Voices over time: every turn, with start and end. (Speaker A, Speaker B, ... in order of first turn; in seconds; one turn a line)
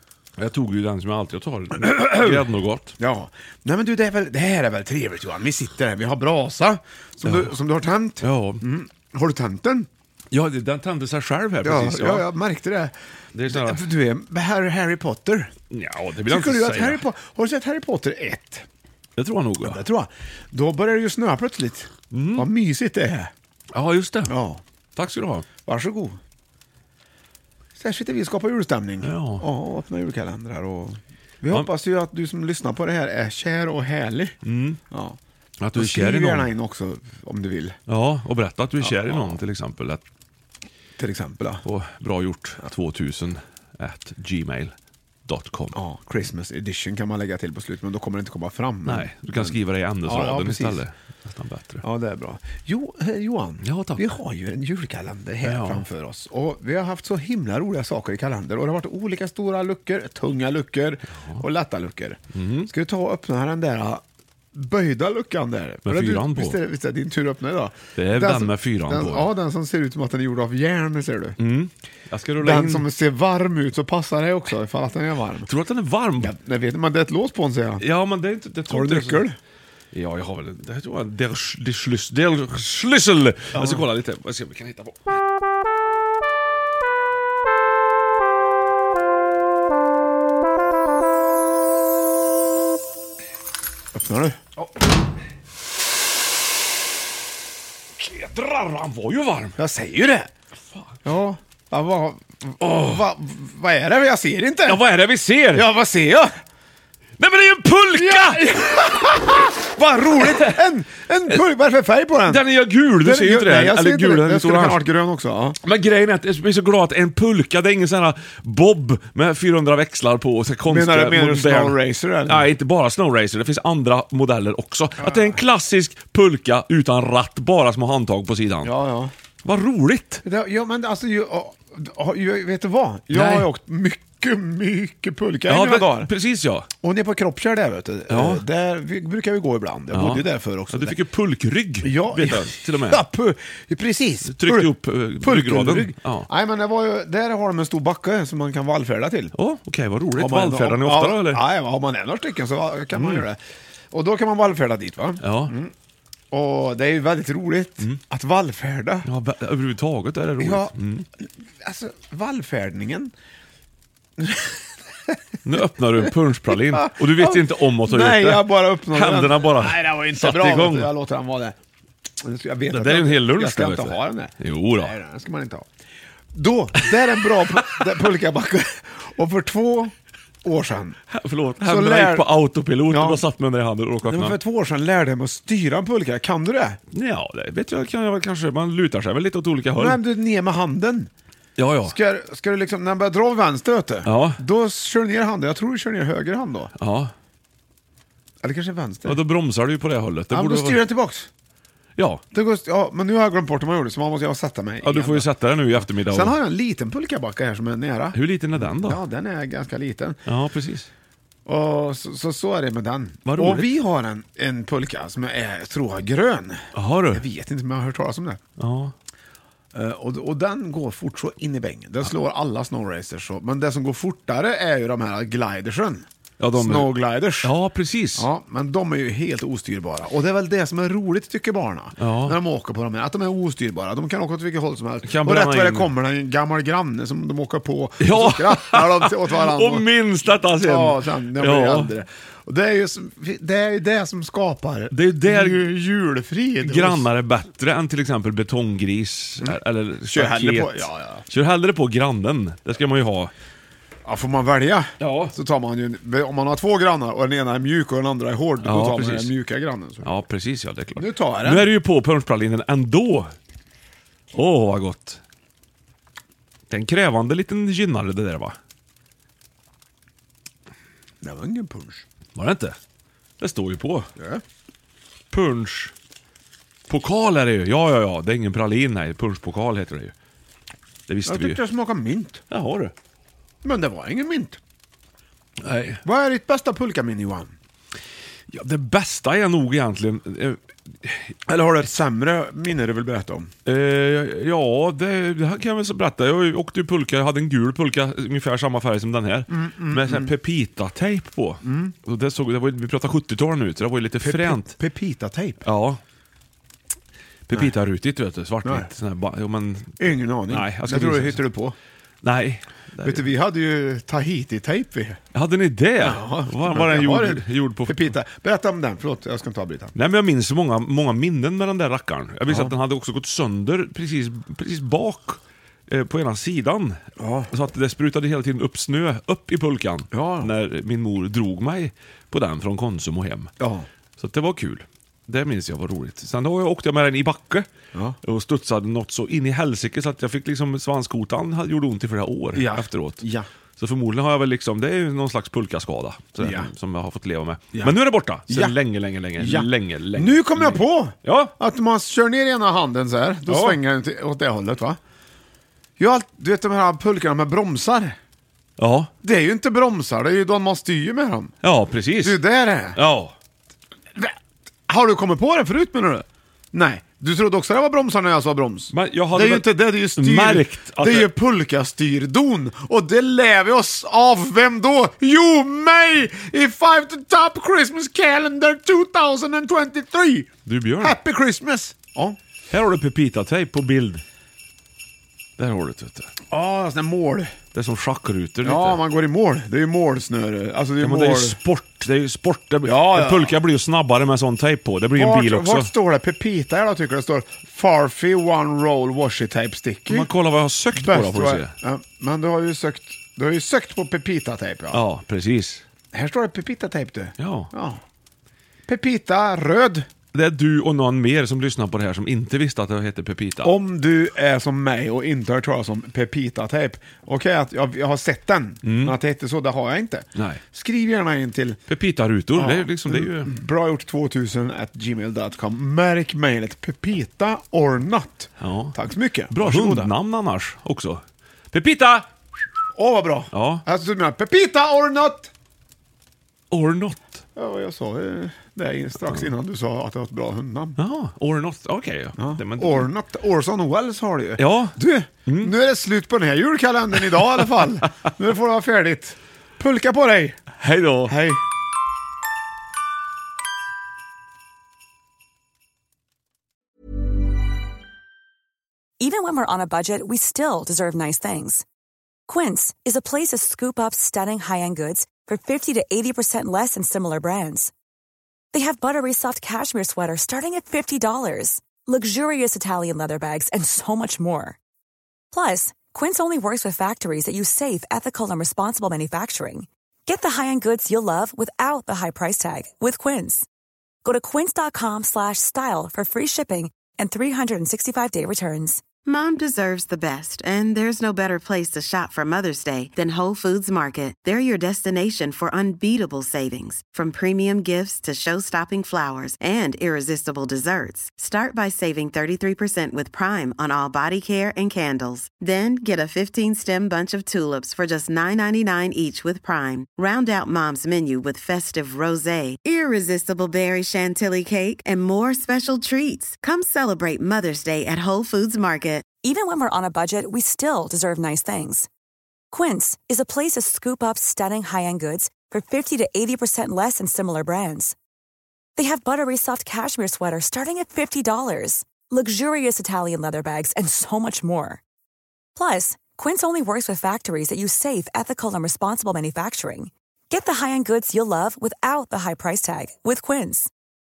Speaker A: 0.4-2.9
Speaker B: 3.0-9.9
Speaker A: 7.2-7.6
Speaker A: 8.2-8.6
Speaker A: 10.3-12.3
Speaker B: 11.6-12.9
Speaker A: 13.3-13.8
Speaker B: 13.5-15.5
Speaker A: 15.7-17.0
Speaker B: 16.3-18.6
Speaker A: 19.2-19.8
Speaker B: 19.6-23.3
Speaker A: 22.1-22.5
Speaker A: 23.7-24.3
Speaker B: 24.3-24.6
Speaker A: 24.9-25.4
Speaker B: 25.6-26.2
Speaker B: 27.8-34.4
Speaker A: 29.0-29.4
Speaker A: 34.4-34.8
Speaker B: 34.9-35.2
Speaker A: 35.6-36.5
Speaker B: 35.7-37.8
Speaker A: 37.9-40.0
Speaker B: 38.8-39.4
Speaker B: 41.0-41.6
Speaker A: 41.6-44.7
Speaker A: 45.2-45.8
Speaker B: 45.7-50.8
Speaker A: 48.8-51.8
Speaker B: 51.8-64.0
Speaker A: 53.6-54.1
Speaker A: 55.4-55.8
Speaker A: 62.3-62.7
Speaker B: 64.5-71.4
Speaker A: 65.8-66.6
Speaker A: 68.0-69.3
Speaker A: 71.4-72.8
Speaker B: 72.4-75.5
Speaker A: 75.5-76.3
Speaker B: 76.2-77.8
Speaker A: 77.8-79.2
Speaker B: 78.7-79.4
Speaker A: 79.9-85.1
Speaker B: 83.5-83.9
Speaker B: 93.9-94.6
Speaker A: 98.0-99.5
Speaker B: 99.6-100.3
Speaker B: 101.0-104.8
Speaker A: 102.6-103.0
Speaker A: 104.6-105.7
Speaker B: 105.5-106.3
Speaker A: 107.2-108.5
Speaker B: 107.9-112.4
Speaker A: 110.2-110.6
Speaker A: 112.2-114.8
Speaker B: 113.0-115.6
Speaker A: 115.6-128.7
Speaker B: 120.7-122.5
Speaker B: 125.0-125.4
Speaker B: 128.6-129.1
Speaker A: 129.4-130.2
Speaker B: 130.2-136.1
Speaker A: 133.1-133.5
Speaker A: 135.5-136.7
Speaker B: 136.8-141.0
Speaker A: 138.1-138.4
Speaker A: 139.9-143.0
Speaker B: 141.8-149.3
Speaker A: 144.2-146.3
Speaker A: 149.3-151.4
Speaker B: 150.2-153.4
Speaker A: 152.9-153.2
Speaker B: 153.9-155.7
Speaker A: 155.2-155.5
Speaker B: 156.3-159.1
Speaker A: 159.0-161.1
Speaker B: 160.4-160.7
Speaker B: 161.6-163.1
Speaker B: 164.2-165.3
Speaker A: 165.4-170.9
Speaker B: 166.5-171.6
Speaker B: 172.2-175.7
Speaker A: 172.7-174.9
Speaker B: 176.3-179.9
Speaker B: 180.4-181.0
Speaker A: 181.1-184.4
Speaker B: 181.6-182.3
Speaker B: 182.9-183.2
Speaker B: 184.0-186.8
Speaker A: 186.9-190.0
Speaker B: 189.7-191.1
Speaker A: 191.6-192.0
Speaker B: 191.8-196.7
Speaker A: 194.0-194.4
Speaker A: 196.8-197.1
Speaker B: 198.4-199.2
Speaker A: 199.0-200.8
Speaker B: 200.3-201.3
Speaker A: 202.0-202.2
Speaker B: 202.3-210.2
Speaker A: 204.8-206.3
Speaker A: 208.1-209.0
Speaker A: 210.2-210.9
Speaker B: 211.4-218.4
Speaker A: 213.2-213.7
Speaker A: 216.7-217.2
Speaker A: 218.6-218.9
Speaker B: 219.7-227.5
Speaker A: 226.4-228.3
Speaker B: 228.2-239.8
Speaker A: 232.0-232.4
Speaker A: 235.0-235.9
Speaker A: 238.0-241.9
Speaker B: 240.6-247.1
Speaker A: 244.9-245.7
Speaker A: 246.6-253.3
Speaker B: 250.1-251.2
Speaker B: 254.0-260.1
Speaker A: 255.0-255.3
Speaker A: 258.6-259.3
Speaker A: 260.0-263.3
Speaker B: 260.9-261.7
Speaker A: 264.3-265.2
Speaker A: 266.7-268.6
Speaker B: 271.2-272.0
Speaker A: 272.3-272.8
Speaker A: 273.4-274.1
Speaker B: 274.1-274.4
Speaker A: 275.3-275.9
Speaker A: 276.9-280.1
Speaker A: 281.1-281.6
Speaker B: 281.2-282.4
Speaker A: 282.5-282.9
Speaker B: 283.6-284.6
Speaker A: 285.6-286.0
Speaker B: 286.0-287.5
Speaker A: 288.5-291.3
Speaker B: 291.4-293.5
Speaker A: 293.6-304.8
Speaker B: 299.5-300.3
Speaker B: 301.6-301.9
Speaker B: 304.2-305.7
Speaker A: 305.6-306.0
Speaker A: 307.5-311.4
Speaker B: 308.6-308.9
Speaker B: 310.0-311.7
Speaker A: 312.2-313.3
Speaker B: 313.0-315.2
Speaker A: 315.3-318.1
Speaker B: 316.0-319.9
Speaker A: 319.9-333.5
Speaker B: 322.5-322.7
Speaker B: 327.2-327.5
Speaker B: 330.1-330.5
Speaker B: 333.6-333.9
Speaker A: 334.2-337.7
Speaker A: 338.2-343.2
Speaker B: 342.5-343.5
Speaker A: 343.8-351.5
Speaker B: 346.4-346.7
Speaker B: 347.7-348.8
Speaker B: 349.4-355.0
Speaker A: 353.5-353.8
Speaker B: 356.0-358.1
Speaker A: 358.8-359.1
Speaker B: 359.2-361.5
Speaker A: 361.6-362.4
Speaker B: 362.2-363.0
Speaker A: 362.9-363.3
Speaker B: 364.9-382.4
Speaker A: 368.9-371.3
Speaker A: 380.6-381.2
Speaker A: 382.7-384.2
Speaker A: 385.6-386.3
Speaker B: 386.5-387.5
Speaker A: 387.7-389.0
Speaker B: 388.6-391.6
Speaker A: 391.0-395.9
Speaker B: 392.8-393.6
Speaker B: 395.1-400.3
Speaker A: 400.1-401.7
Speaker B: 400.9-405.0
Speaker A: 404.9-405.8
Speaker B: 406.1-408.0
Speaker A: 407.4-407.7
Speaker B: 408.9-410.1
Speaker A: 410.3-413.7
Speaker B: 413.6-421.8
Speaker A: 418.8-419.2
Speaker A: 420.4-420.6
Speaker A: 421.9-423.5
Speaker B: 422.6-430.1
Speaker A: 428.6-428.9
Speaker A: 429.5-432.3
Speaker B: 432.9-435.5
Speaker A: 433.5-433.8
Speaker A: 436.7-437.4
Speaker B: 437.6-441.0
Speaker A: 439.2-439.5
Speaker A: 441.0-443.1
Speaker B: 442.4-450.6
Speaker A: 444.6-445.7
Speaker A: 450.8-451.3
Speaker B: 451.2-451.6
Speaker C: 459.2-461.8
Speaker C: 462.5-467.9
Speaker C: 468.7-474.8
Speaker C: 475.5-483.6
Speaker C: 484.2-489.0
Speaker D: 489.2-519.2
Speaker C: 519.4-522.1
Speaker C: 522.7-528.1
Speaker C: 529.0-535.0
Speaker C: 535.7-543.9